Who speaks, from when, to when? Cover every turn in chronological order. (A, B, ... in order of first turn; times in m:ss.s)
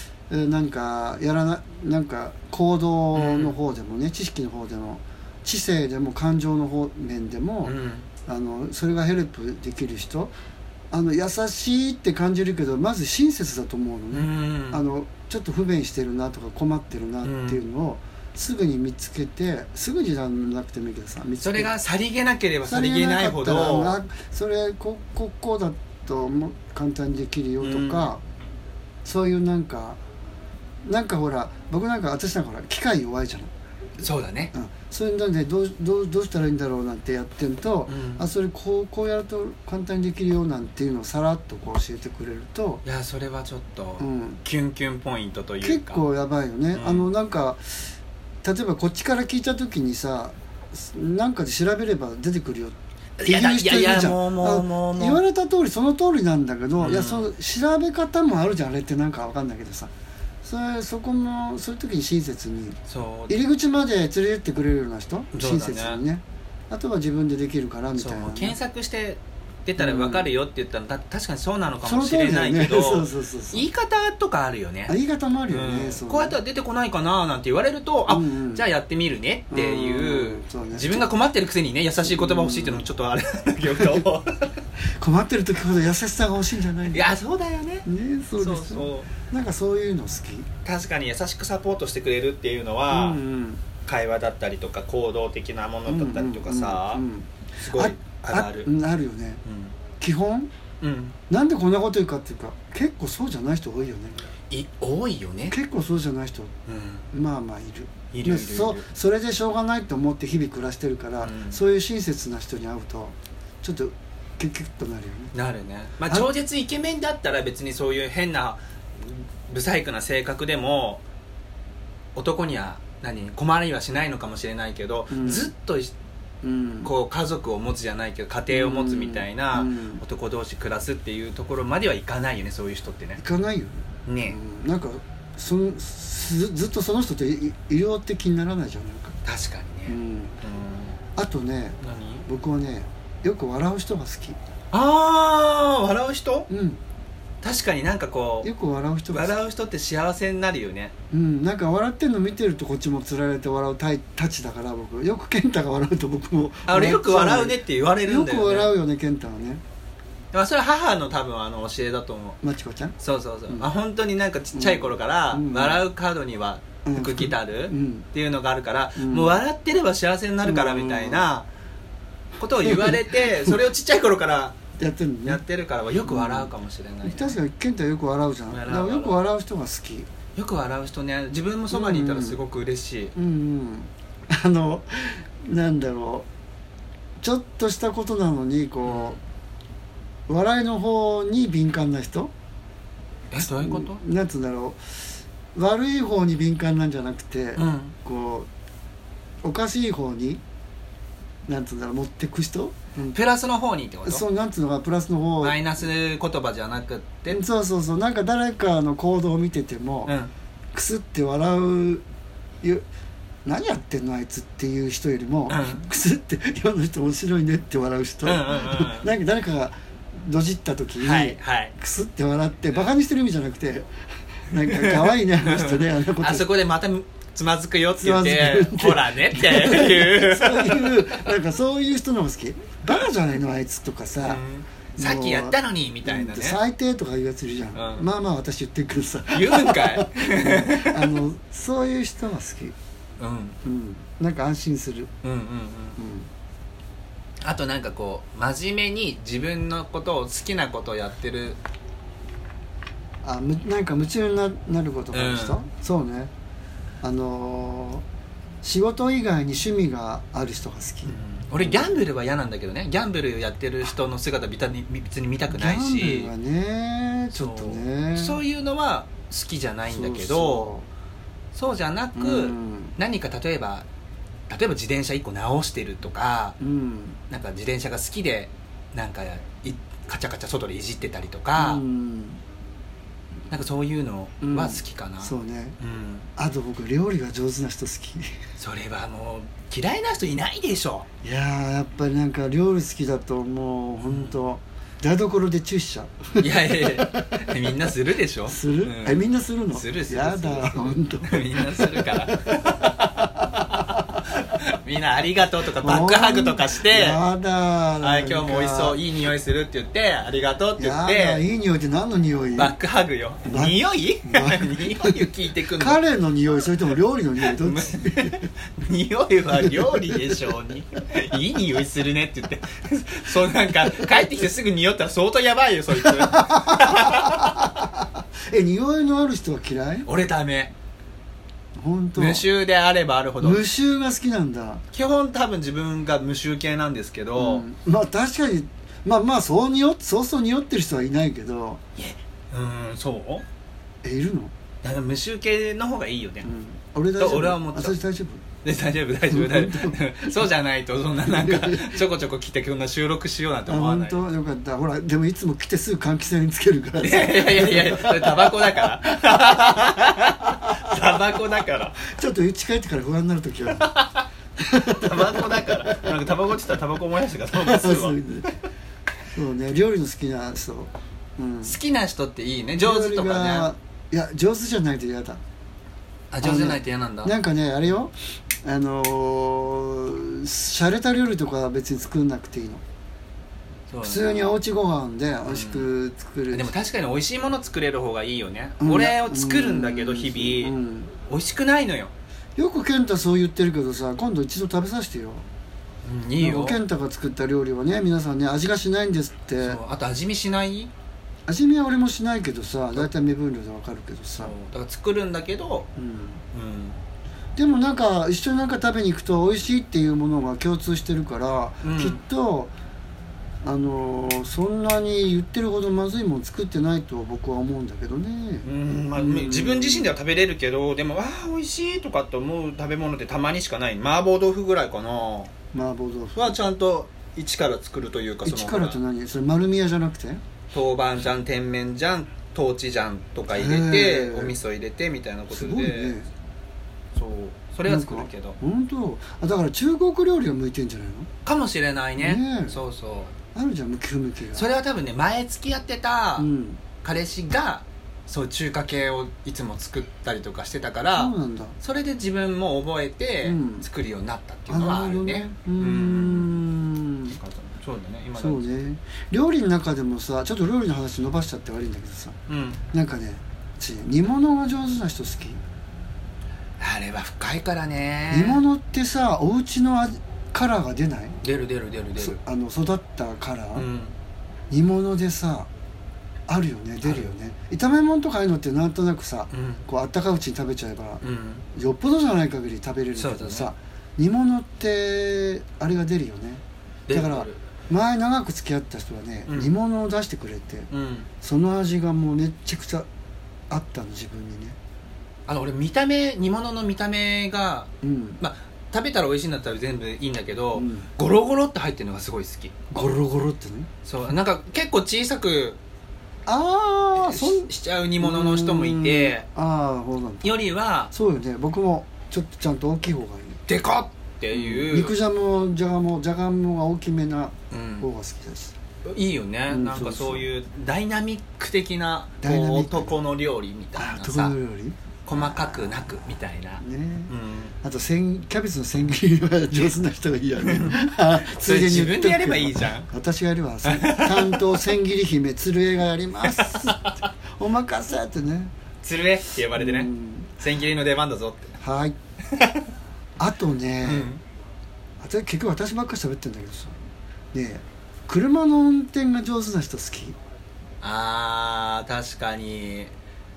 0:00.3-0:07.8 A
0:03.1-0:03.6 B
0:07.6-0:08.1 B
0:08.3-0:10.3 A
0:10.9-0:21.7 A
0:14.1-0:14.8 B
0:17.2-0:17.6 B
0:21.4-0:24.0 B
0:22.6-0:28.2 A
0:27.6-0:28.1 B
0:29.0-0:30.0 A
0:30.8-0:33.5 A
0:34.0-0:34.5 B
0:34.5-0:42.8 A
0:37.9-0:38.3 B
0:42.8-0:46.0 B
0:44.0-0:44.4 A
0:45.6-0:47.6 A
0:46.7-0:47.1 B
0:48.4-0:59.9 A
0:53.2-0:55.2 B
0:56.8-0:57.3 B
1:00.4-1:02.8 A
1:02.9-1:03.4 B
1:03.3-1:08.6 A
1:05.3-1:06.0 B
1:08.0-1:15.0 B
1:09.8-1:10.3 A
1:11.8-1:13.7 A
1:14.9-1:16.4 A
1:15.5-1:24.5 B
1:18.1-1:18.6 A
1:19.5-1:21.1 A
1:22.0-1:22.9 A
1:25.0-1:27.1 A
1:26.9-1:27.9 B
1:27.9-1:30.5 A
1:28.4-1:29.1 B
1:30.6-1:33.2 B
1:32.9-1:33.6 A
1:33.8-1:37.0 B
1:35.9-1:39.4 A
1:37.6-1:38.7 B
1:39.4-1:39.7 B
1:40.0-1:40.5 A
1:40.8-1:41.2 B
1:41.3-1:44.3 A
1:44.5-1:45.6 B
1:45.5-1:46.5 A
1:46.7-1:47.1 B
1:47.1-1:55.3 A
1:48.1-1:48.9 B
1:51.2-1:51.6 B
1:55.3-2:01.0 B
2:02.2-2:06.0 B
2:05.1-2:05.5 A
2:06.4-2:06.9 A
2:06.8-2:13.2 B
2:08.5-2:10.0 A
2:13.2-2:19.2 A
2:14.1-2:14.4 B
2:19.2-2:21.0 B
2:19.9-2:20.4 A
2:21.2-2:24.4 A
2:21.8-2:22.3 B
2:24.7-2:26.5 B
2:26.5-2:26.8 A
2:27.4-2:28.5 B
2:28.4-2:29.4 A
2:29.1-2:30.9 B
2:31.1-2:39.6 A
2:36.7-2:38.7 B
2:40.3-2:42.4 B
2:42.4-2:43.0 A
2:43.0-2:51.5 B
2:44.6-2:45.8 A
2:46.8-2:48.1 A
2:49.0-2:49.4 A
2:50.4-2:51.3 A
2:52.4-2:54.6 B
2:52.6-2:53.6 A
2:54.8-2:55.4 A
2:55.2-2:57.4 B
2:56.0-2:56.5 A
2:57.0-3:00.1 A
2:58.5-2:59.2 B
3:00.4-3:03.2 B
3:01.7-3:02.4 A
3:03.2-3:06.3 A
3:07.2-3:09.2 A
3:08.8-3:09.2 B
3:10.3-3:12.3 A
3:13.3-3:14.0 B
3:13.4-3:14.8 A
3:15.6-3:18.5 A
3:17.6-3:17.9 B
3:19.4-3:20.4 A
3:21.5-3:23.2 A
3:23.1-3:24.2 B
3:24.1-3:25.6 A
3:25.4-3:27.4 B
3:27.3-3:30.1 A
3:30.7-3:32.0 A
3:33.4-3:43.9 A
3:35.5-3:35.9 B
3:38.2-3:39.1 B
3:41.0-3:41.8 B
3:44.5-3:46.5 A
3:44.6-3:51.2 B
3:48.0-3:54.4 A
3:54.2-3:56.6 B
3:55.0-4:02.8 A
3:57.8-3:58.1 B
3:59.3-4:01.2 B
4:03.2-4:03.6 B
4:03.6-4:05.1 A
4:05.2-4:06.0 B
4:06.0-4:06.3 A
4:07.4-4:11.6 B
4:13.2-4:16.3 A
4:15.1-4:15.6 B
4:17.0-4:18.0 A
4:18.6-4:21.9 A
4:21.1-4:26.3 B
4:25.5-4:28.4 A
4:27.3-4:30.7 B
4:29.9-4:30.9 A
4:31.5-4:33.9 B
4:32.2-4:32.9 A
4:34.5-4:36.6 B
4:36.6-4:37.2 A
4:37.3-4:41.8 B
4:41.6-4:42.4 A
4:43.5-4:46.3 B
4:44.4-4:45.8 A
4:46.4-4:48.3 A
4:48.6-4:51.1 B
4:51.2-4:57.6 A
4:54.1-4:54.4 B
4:56.4-5:07.2 B
4:58.5-5:04.0 A
5:05.8-5:09.0 A
5:08.0-5:11.4 B
5:10.8-5:12.8 A
5:12.6-5:16.0 B
5:13.5-5:18.4 A
5:17.4-5:27.7 B
5:19.6-5:20.4 A
5:26.0-5:30.1 A
5:30.1-5:30.7 B
5:31.8-5:32.4 A
5:32.2-5:33.6 B
5:33.4-5:34.8 A
5:34.9-5:37.6 B
5:37.4-5:41.8 A
5:42.0-5:43.4 B
5:44.0-5:44.5 A
5:44.8-5:46.5 B
5:46.4-5:48.4 A
5:47.2-5:48.0 B
5:48.6-5:54.2 B
5:49.3-5:50.0 A
5:51.3-5:52.0 A
5:53.7-5:59.8 A
5:57.0-6:02.0 B
6:00.6-6:01.2 A
6:02.0-6:03.9 A
6:03.8-6:08.2 B
6:04.6-6:06.1 A
6:07.6-6:08.5 A
6:09.3-6:11.8 A
6:11.6-6:13.7 B
6:12.8-6:15.4 A
6:16.3-6:17.4 B
6:16.4-6:22.8 A
6:23.9-6:24.5 B
6:24.0-6:26.7 A
6:25.5-6:25.9 B
6:26.5-6:30.8 B
6:28.8-6:31.1 A
6:31.3-6:32.1 B
6:32.6-6:35.4 A
6:36.0-6:36.8 B
6:36.4-6:39.8 A
6:39.6-6:40.9 B
6:41.5-6:44.5 A
6:44.4-6:45.9 B
6:46.0-6:46.4 A
6:46.5-6:47.0 B
6:47.6-6:52.7 A
6:51.8-6:52.2 B
6:53.6-7:00.1 A
6:58.6-7:05.5 B
7:05.7-7:06.6 A
7:06.4-7:09.0 B
7:08.4-7:10.4 A
7:10.7-7:16.2 B
7:13.5-7:14.6 A
7:15.5-7:16.3 A
7:17.2-7:18.6 B
7:17.9-7:21.3 A
7:21.4-7:23.3 B
7:22.2-7:22.8 A
7:23.6-7:24.7 A
7:24.5-7:26.5 B
7:26.4-7:26.8 A
7:27.0-7:36.6 B
7:31.2-7:31.8 A
7:33.4-7:33.9 A
7:34.7-7:37.4 A
7:37.3-7:38.7 B
7:38.4-7:42.4 A
7:42.5-7:42.8 B
7:42.9-7:45.6 A
7:46.8-7:48.6 B
7:48.3-7:51.4 A
7:51.4-7:52.4 B
7:52.2-7:53.9 A
7:53.8-7:54.1 B
7:54.7-7:55.7 A
7:56.5-8:01.2 A
7:57.0-7:57.3 B
7:59.5-7:59.8 B
8:01.2-8:01.6 B
8:01.7-8:10.9 A
8:03.2-8:03.7 B
8:07.1-8:07.6 B
8:09.5-8:09.7 B
8:10.9-8:11.3 B
8:11.4-8:13.1 A
8:13.7-8:14.8 A
8:15.5-8:22.8 B
8:18.0-8:18.4 A
8:20.8-8:21.1 A
8:22.9-8:23.9 A
8:24.0-8:25.8 B
8:26.5-8:30.6 A
8:27.2-8:29.5 B
8:30.4-8:31.1 B
8:31.1-8:33.6 A
8:33.7-8:35.2 B
8:34.5-8:38.8 A
8:37.7-8:38.1 B
8:39.1-8:44.6 B
8:39.7-8:40.5 A
8:42.4-8:43.2 A
8:44.0-8:46.3 A
8:45.3-8:47.7 B
8:46.8-8:58.7 A
8:50.6-8:53.1 B
8:53.8-8:54.8 B
8:56.4-8:57.2 B
8:59.0-9:01.7 B
8:59.8-9:00.5 A
9:01.8-9:02.2 A
9:02.5-9:02.8 B
9:03.4-9:04.3 A
9:04.0-9:04.4 B
9:05.2-9:07.0 A
9:07.5-9:10.4 A
9:11.0-9:13.1 B